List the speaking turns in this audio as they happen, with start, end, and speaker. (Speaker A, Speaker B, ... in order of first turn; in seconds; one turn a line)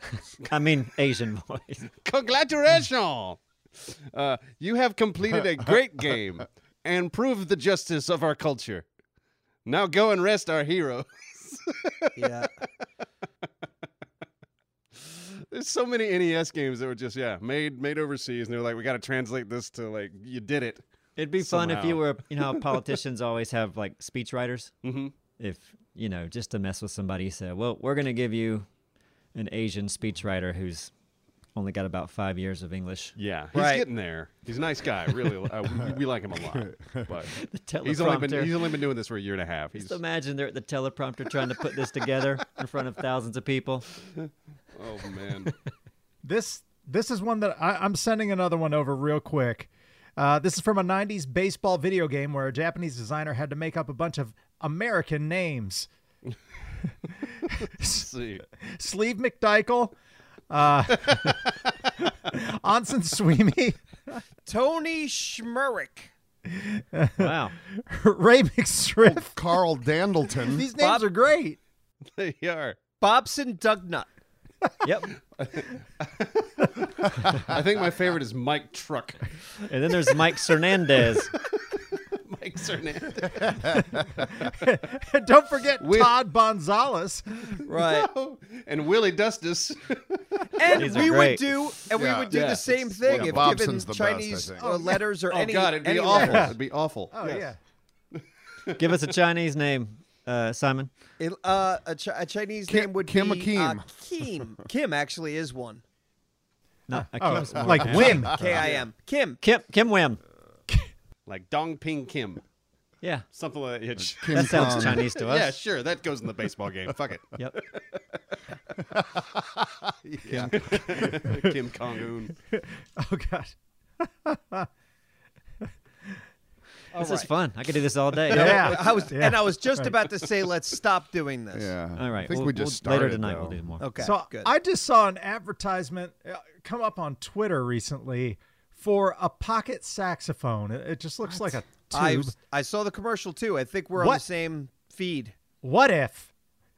Speaker A: 0.5-1.9
Speaker B: 2.0-8.8
Speaker B: 9.6-12.6
Speaker C: 12.2-12.5
Speaker B: 14.9-20.8
Speaker A: 21.2-24.7
Speaker B: 21.4-23.0
Speaker B: 24.8-25.1
Speaker A: 25.4-28.7
Speaker A: 29.3-30.9
Speaker A: 31.5-33.1
Speaker B: 33.2-40.0
Speaker C: 33.5-33.9
Speaker D: 36.5-37.1
Speaker A: 37.3-38.7
Speaker A: 39.8-43.9
Speaker B: 44.7-45.5
Speaker E: 46.2-55.9
Speaker E: 57.5-58.1
Speaker B: 57.9-58.4
Speaker E: 58.6-59.9
Speaker E: 60.5-64.2
Speaker C: 64.5-66.1
Speaker E: 66.5-69.3
Speaker A: 67.2-67.5
Speaker D: 69.0-70.7
Speaker E: 70.4-71.6
Speaker C: 70.8-71.0
Speaker B: 72.1-72.8
Speaker C: 73.0-74.1
Speaker A: 74.8-75.1
Speaker B: 75.4-76.6
Speaker B: 77.2-79.4
Speaker A: 79.6-81.3
Speaker B: 81.3-83.8
Speaker D: 83.3-84.3
Speaker E: 84.3-87.6
Speaker B: 85.8-86.1
Speaker C: 87.7-88.1
Speaker B: 87.7-91.1
Speaker C: 90.5-96.5
Speaker A: 90.7-91.4
Speaker D: 91.9-92.4
Speaker B: 92.3-93.5
Speaker D: 93.1-94.7
Speaker E: 94.6-95.0
Speaker B: 95.3-97.5
Speaker E: 96.1-96.6
Speaker E: 97.1-97.6
Speaker B: 98.1-98.8
Speaker A: 98.8-100.9
Speaker C: 101.2-105.8
Speaker D: 102.7-103.9
Speaker A: 106.9-108.4
Speaker E: 106.9-108.4
Speaker D: 107.7-108.7
Speaker C: 107.9-109.4
Speaker B: 108.4-108.8
Speaker A: 109.4-110.2
Speaker B: 111.3-112.4
Speaker B: 113.3-118.0
Speaker D: 114.0-115.1
Speaker A: 114.3-115.5
Speaker D: 120.0-121.3
Speaker B: 120.2-122.3
Speaker E: 121.2-121.5
Speaker E: 122.5-124.7
Speaker C: 126.9-127.3
Speaker A: 126.9-128.9
Speaker E: 128.3-129.9
Speaker C: 128.3-131.7
Speaker D: 131.5-133.7
Speaker A: 131.9-133.9
Speaker C: 133.8-134.5
Speaker E: 134.0-142.3
Speaker C: 141.9-145.3
Speaker E: 143.9-144.2
Speaker E: 145.6-146.3